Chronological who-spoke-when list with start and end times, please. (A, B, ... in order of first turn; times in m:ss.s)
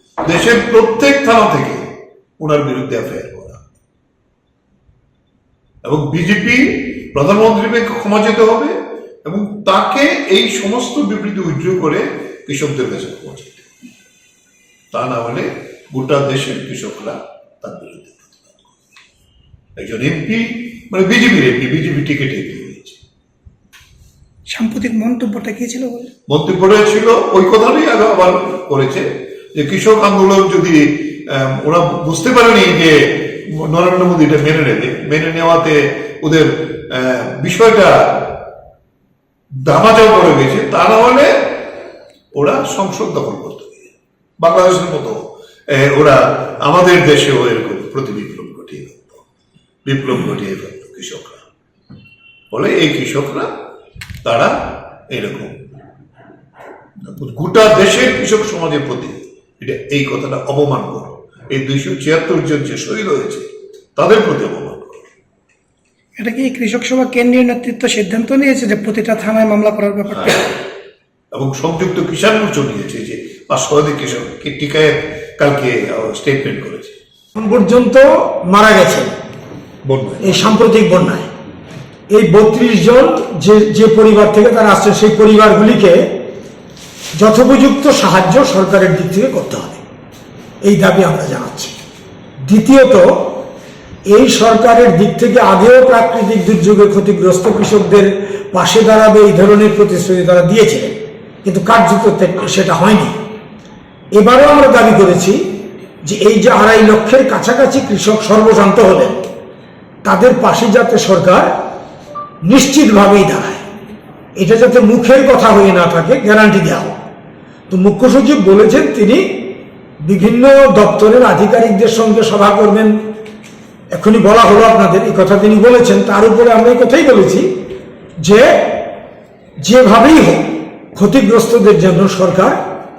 0:00.2-0:03.6 A
0:05.8-0:13.7 A
0:14.9-0:18.7 A
0:19.8-0:23.0 A
0:24.5-0:26.1 B
0:26.3-0:38.4 A
0:39.6-0:41.6 A
0:42.3-0:49.2 A
0:49.8-0:51.4 A
0:52.5-0:53.5 A
0:54.2-0:55.7 A
0:57.0-1:05.1 A
1:06.2-1:10.4 B
1:10.1-1:10.5 A
1:11.3-1:17.0 A
1:17.4-1:19.1 C
1:19.8-1:20.6 A
1:20.2-1:21.3 C
1:22.1-1:26.2 C
1:27.2-1:29.8 C
1:30.6-1:31.8 C
1:32.5-1:33.4 C
1:34.1-1:43.2 C
1:44.1-1:49.2 C
1:50.0-1:51.5 C
1:52.4-1:53.6 C
1:54.4-1:57.0 C
1:57.7-2:03.0 C
2:03.9-2:07.6 C
2:08.2-2:09.0 C
2:09.6-2:12.6 C